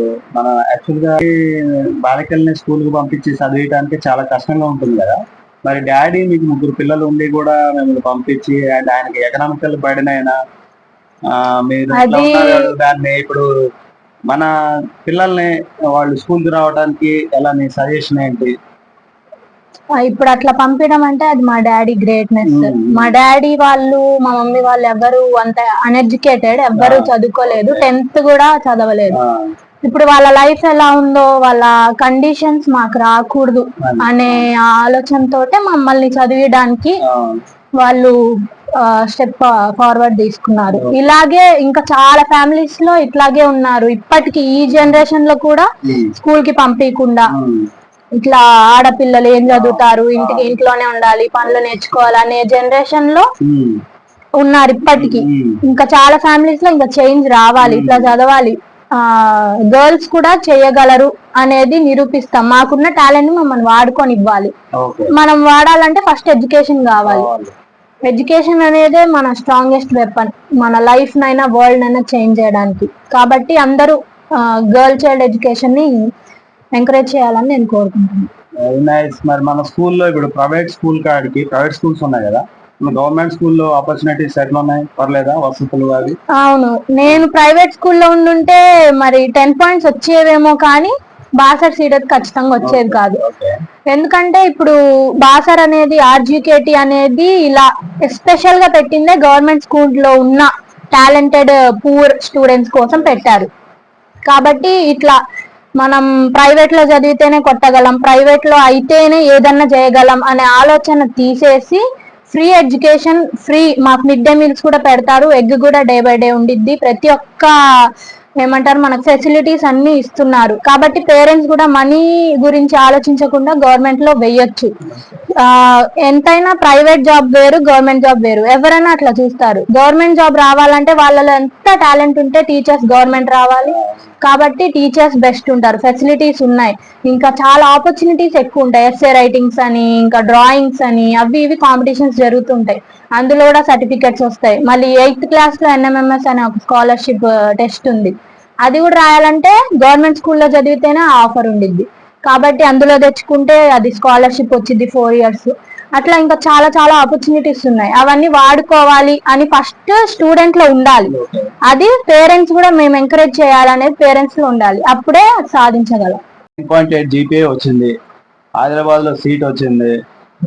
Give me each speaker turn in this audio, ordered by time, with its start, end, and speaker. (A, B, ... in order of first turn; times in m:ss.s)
0:00.3-0:01.3 A
0:02.0-0:10.4 A
0:11.3-0:13.5 A
0:11.9-0:12.7 B
0:15.0-0:18.5 A
0:20.0-0:29.2 B
0:22.5-0:23.2 A
0:26.8-0:27.9 A
0:29.1-0:29.5 A
0:29.8-0:37.0 B
0:33.8-0:34.5 A
0:37.0-0:37.4 A
0:37.8-0:38.1 B
0:38.8-0:47.3 B
0:40.7-0:41.0 A
0:45.8-0:46.1 A
0:47.3-0:47.7 A
0:48.2-0:53.2 B
0:49.5-0:50.5 A
0:53.4-0:53.8 A
0:54.4-1:04.5 B
0:54.9-0:55.6 A
0:57.6-0:58.1 A
1:04.7-1:05.1 A
1:05.1-1:07.3 B
1:07.0-1:07.5 A
1:08.0-1:15.9 B
1:16.7-1:18.3 B
1:18.6-1:26.2 A
1:26.3-1:33.2 B
1:32.6-1:33.5 A
1:33.9-1:43.5 B
1:42.9-1:43.2 A
1:44.2-1:45.2 B
1:45.8-1:57.5 B
1:58.4-2:04.7 B
2:05.4-2:28.1 B
2:13.6-2:14.1 A
2:28.6-2:41.1 B
2:41.1-2:41.5 A
2:41.6-2:46.2 B
2:46.6-2:47.9 A
2:48.6-2:49.9 A